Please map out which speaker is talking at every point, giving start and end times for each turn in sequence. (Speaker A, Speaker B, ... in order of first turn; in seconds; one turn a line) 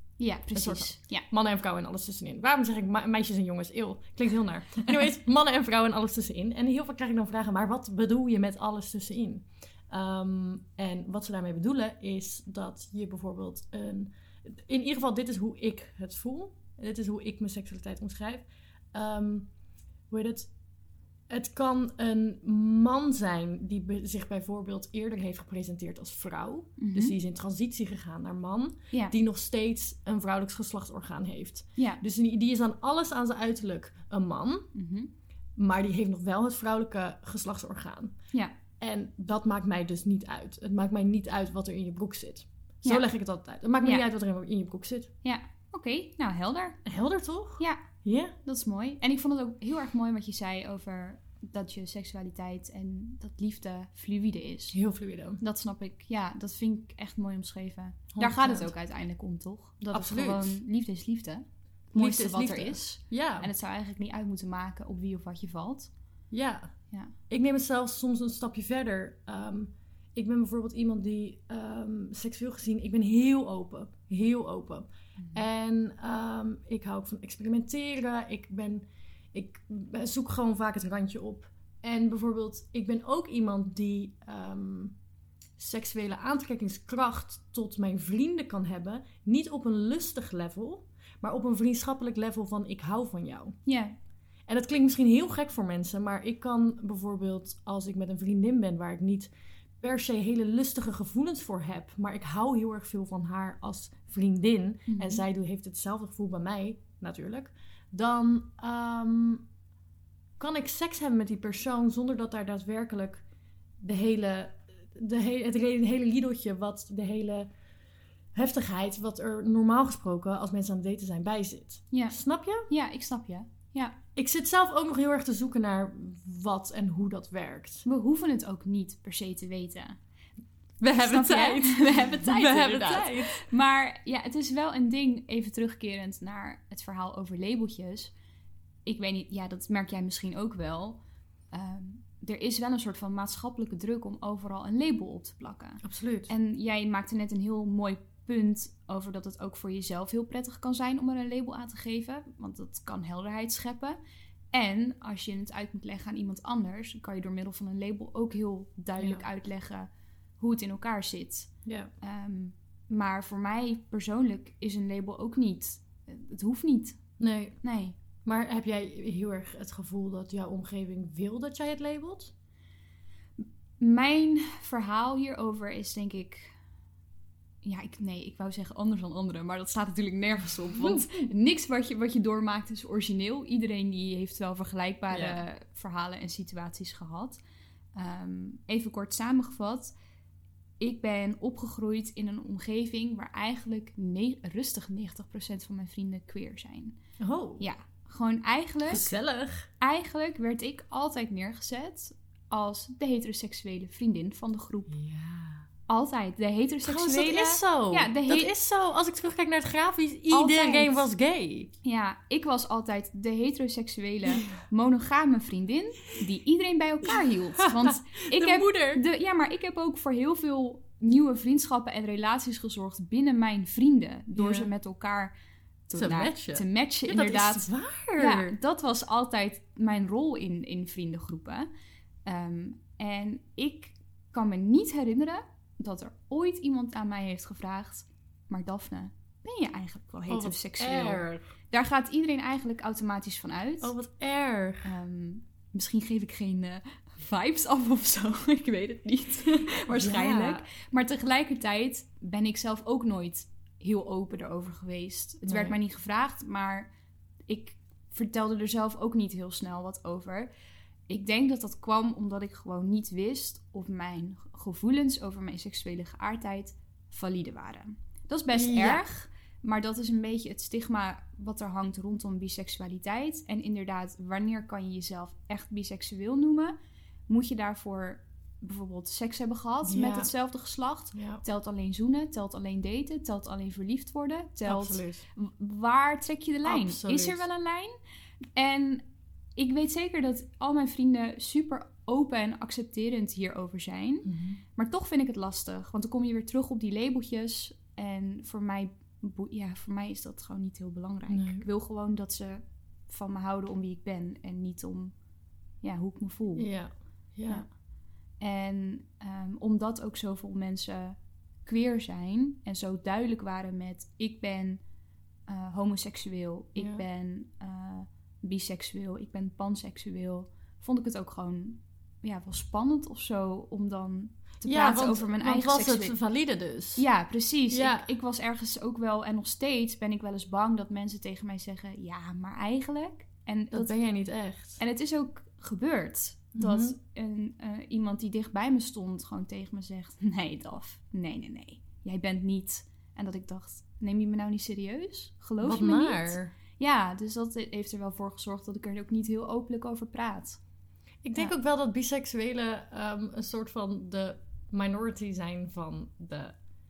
Speaker A: 0.2-1.2
Speaker B: 0.5-19.5
Speaker B: 20.1-20.5
Speaker B: 21.3-34.7
Speaker A: 26.8-27.2
Speaker A: 34.7-35.1
Speaker B: 35.6-38.1
Speaker B: 38.8-45.1
Speaker A: 45.2-46.8
Speaker B: 46.9-48.4
Speaker A: 48.4-54.8
Speaker B: 54.7-55.4
Speaker A: 55.4-65.9
Speaker B: 58.1-58.7
Speaker B: 59.8-60.6
Speaker B: 62.0-63.5
Speaker B: 66.3-66.7
Speaker B: 67.3-85.0
Speaker B: 85.6-93.6
Speaker A: 93.7-94.0
Speaker B: 94.5-109.5
Speaker A: 104.9-105.2
Speaker B: 110.4-113.2
Speaker B: 113.8-117.5
Speaker B: 118.3-122.7
Speaker A: 121.9-122.2
Speaker A: 122.7-124.0
Speaker B: 124.2-127.9
Speaker A: 127.9-130.0
Speaker B: 130.8-133.4
Speaker A: 131.0-138.1
Speaker A: 138.8-154.0
Speaker B: 145.8-146.3
Speaker A: 154.5-167.1
Speaker B: 159.0-159.3
Speaker B: 161.7-161.9
Speaker B: 167.2-167.6
Speaker A: 167.6-167.9
Speaker B: 168.2-172.3
Speaker A: 173.4-176.6
Speaker A: 177.6-187.4
Speaker B: 180.8-181.1
Speaker B: 185.1-185.4
Speaker A: 187.9-189.9
Speaker A: 190.8-197.0
Speaker B: 197.2-197.7
Speaker A: 197.6-199.1
Speaker B: 198.9-199.7
Speaker A: 199.8-205.0
Speaker B: 204.9-205.6
Speaker A: 205.9-208.5
Speaker B: 206.8-211.7
Speaker A: 210.3-211.1
Speaker A: 211.8-225.3
Speaker B: 217.6-219.0
Speaker B: 224.4-224.7
Speaker A: 225.9-231.7
Speaker B: 225.9-228.6
Speaker A: 232.3-243.9
Speaker B: 240.3-241.5
Speaker B: 243.8-244.9
Speaker A: 244.8-256.9
Speaker B: 249.9-250.7
Speaker B: 255.4-255.8
Speaker A: 257.5-260.5
Speaker A: 261.1-276.8
Speaker B: 268.5-269.1
Speaker A: 277.3-287.9
Speaker B: 279.9-280.3
Speaker B: 281.1-281.4
Speaker B: 284.6-285.2
Speaker B: 286.6-287.5
Speaker A: 288.6-289.1
Speaker A: 289.6-305.1
Speaker B: 294.2-294.6
Speaker B: 301.3-301.6
Speaker A: 305.8-306.7
Speaker B: 306.6-307.7
Speaker A: 308.4-314.8
Speaker A: 315.5-326.1
Speaker B: 316.8-317.0
Speaker B: 324.7-327.1
Speaker A: 327.0-333.9
Speaker B: 327.7-328.1
Speaker B: 333.7-334.8
Speaker A: 334.8-350.6
Speaker B: 336.6-337.0
Speaker B: 345.6-346.5
Speaker B: 351.2-356.6